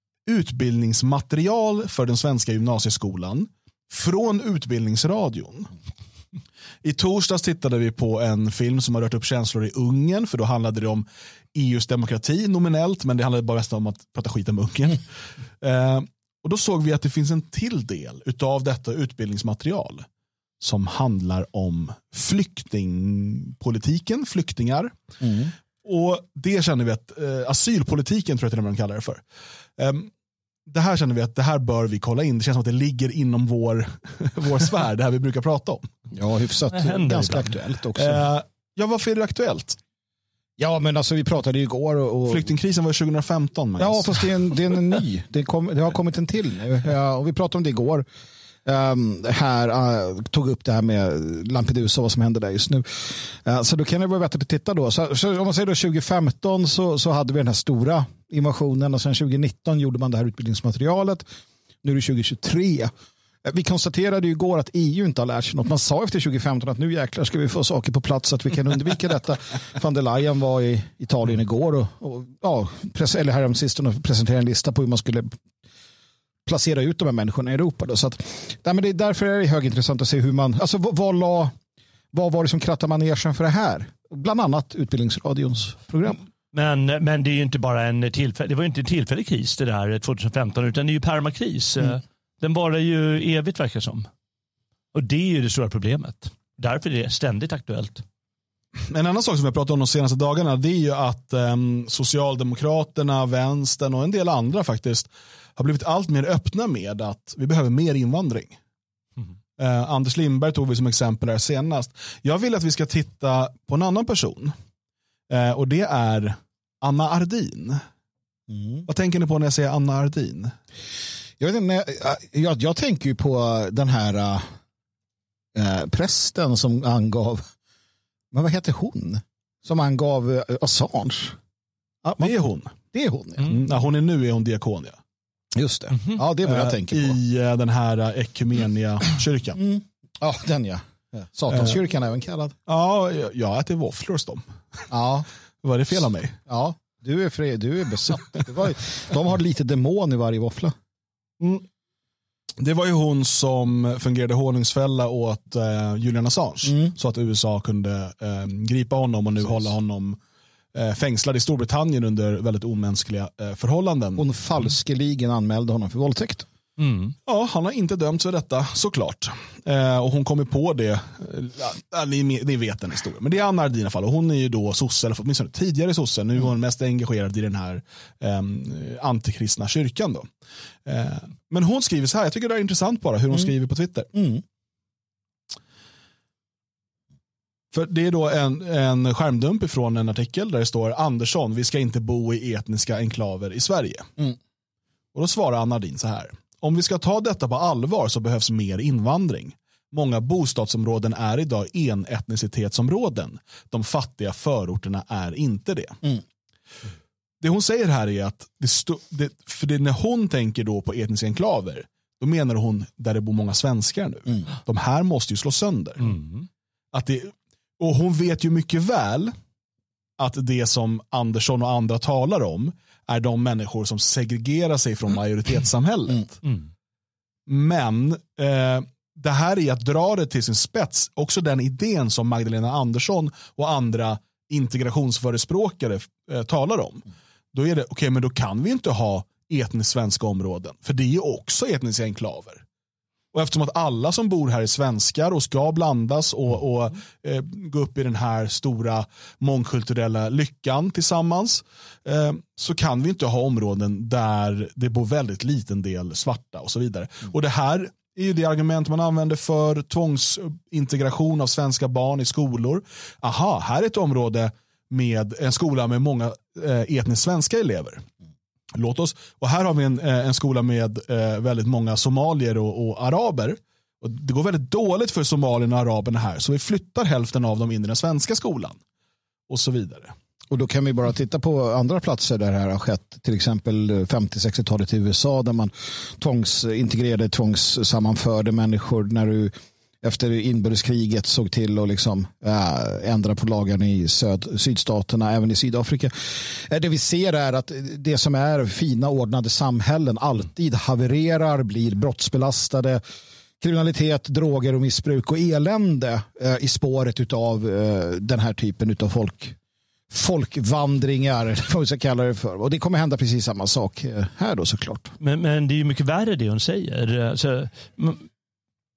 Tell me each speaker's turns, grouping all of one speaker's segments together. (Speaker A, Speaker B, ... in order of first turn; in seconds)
Speaker A: 0.2-5.7, 6.8-15.0, 15.6-20.1, 20.6-24.9, 25.8-29.2, 29.8-30.1, 30.7-35.9, 38.0-39.8, 42.3-44.2, 98.9-108.5, 109.6-114.5, 115.3-117.8, 118.9-120.5, 132.2-132.7, 133.4-135.0, 136.4-139.6, 142.7-144.8, 145.6-146.3, 152.6-160.2, 160.7-164.2, 167.2-180.3, 180.8-184.1, 187.7-194.1, 195.1-206.0, 207.4-216.2, 216.9-219.3, 220.2-226.3, 227.5-242.6, 243.3-268.0, 268.7-278.8, 279.5-280.1
Speaker B: 25.2-25.5, 36.1-38.2, 40.6-42.5, 43.8-48.1, 48.6-61.2, 61.8-62.9, 63.4-75.3, 76.5-81.5, 82.1-86.2, 118.5-118.9, 121.4-124.5, 125.5-127.4, 128.3-131.4, 132.0-133.6, 135.5-137.2, 139.6-142.5, 144.9-145.3, 146.5-150.7, 156.6-156.9, 164.2-166.5, 184.1-184.4, 280.5-303.0, 303.6-309.6, 310.1-315.1
Speaker C: 36.7-37.5, 86.5-94.1, 94.9-98.0, 166.8-167.1, 216.1-216.5, 315.2-318.2